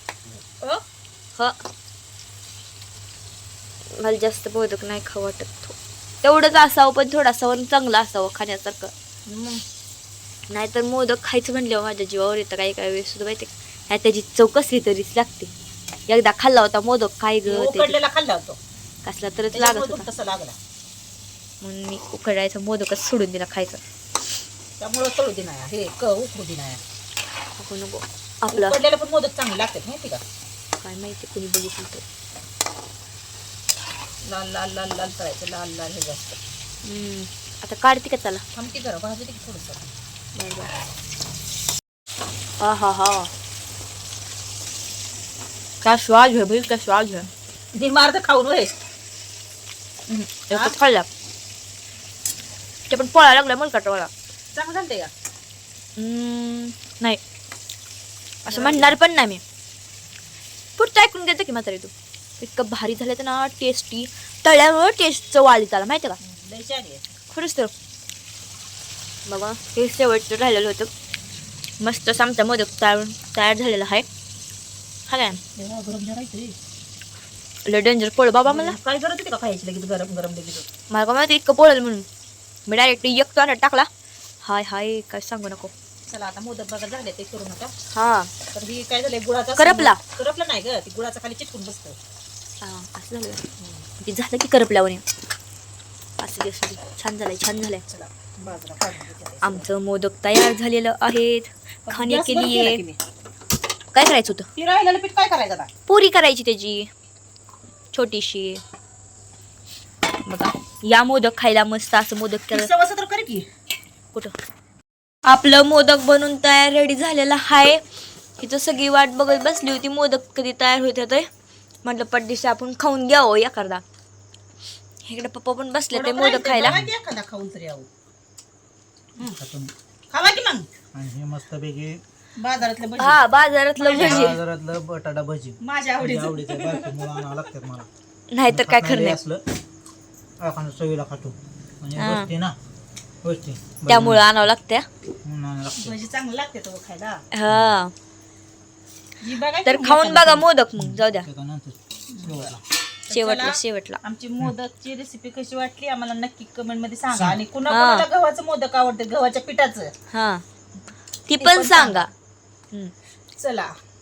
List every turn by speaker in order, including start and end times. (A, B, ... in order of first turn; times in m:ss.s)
0:04.0-0:08.9 A
0:09.3-0:09.6 B
0:10.5-0:15.5 A
0:16.1-0:18.0 A
0:17.4-0:18.6 B
0:19.0-0:20.1 A
0:19.5-0:20.6 B
0:21.6-0:23.8 A
0:24.8-0:26.8 B
0:27.6-0:28.8 A
0:28.5-0:30.2 B
0:30.8-0:32.0 A
0:34.2-0:36.4 B
0:36.8-0:38.4 A
0:38.6-0:39.9 B
0:40.4-0:40.7 A
0:42.6-0:43.3 A
0:45.8-0:47.3 A
0:47.7-0:48.8 B
0:50.1-0:51.1 A
0:50.5-0:50.8 B
0:52.9-0:54.1 A
0:54.5-0:55.1 B
0:56.0-0:57.2 A
0:58.4-0:59.4 A
0:58.5-0:59.0 B
1:00.8-1:06.2 A
1:06.2-1:07.1 B
1:07.3-1:07.7 A
1:09.2-1:10.9 A
1:11.8-1:14.1 A
1:15.1-1:15.4 A
1:15.6-1:16.6 B
1:17.6-1:18.8 A
1:18.5-1:20.7 B
1:20.9-1:22.1 A
1:22.7-1:23.9 A
1:24.4-1:25.7 A
1:26.1-1:27.7 B
1:27.9-1:28.3 A
1:28.5-1:32.0 B
1:29.6-1:30.0 A
1:32.6-1:33.4 A
1:33.6-1:33.8 B
1:34.0-1:35.0 A
1:36.2-1:37.8 A
1:37.9-1:39.7 B
1:39.4-1:42.8 A
1:41.9-1:43.0 B
1:43.9-1:44.5 A
1:44.6-1:45.7 B
1:45.9-1:46.9 A
1:47.9-1:48.6 A
1:50.2-1:52.7 A
1:52.5-1:53.5 B
1:55.3-1:57.8 A
1:58.4-2:01.3 A
2:01.8-2:03.8 A
2:05.1-2:06.8 A
2:05.9-2:07.9 B
2:06.6-2:06.9 C
2:09.2-2:09.7 C
2:10.1-2:10.7 B
2:10.9-2:12.0 C
2:12.4-2:13.2 B
2:13.0-2:14.4 A
2:13.8-2:14.4 B
2:13.9-2:17.9 C
2:15.6-2:17.3 B
2:18.3-2:19.2 A
2:18.5-2:19.4 C
2:20.4-2:22.6 C
2:22.0-2:22.3 A
2:23.2-2:24.3 C
2:23.8-2:24.9 A
2:25.2-2:26.0 C
2:25.7-2:27.2 B
2:27.3-2:27.9 A
2:29.2-2:30.5 B
2:29.6-2:31.3 A
2:30.8-2:32.6 C
2:32.1-2:39.9 B
2:33.1-2:34.0 A
2:37.7-2:38.1 A
2:40.1-2:40.4 A
2:41.3-2:42.1 A
2:41.4-2:42.1 B
2:43.4-2:43.7 B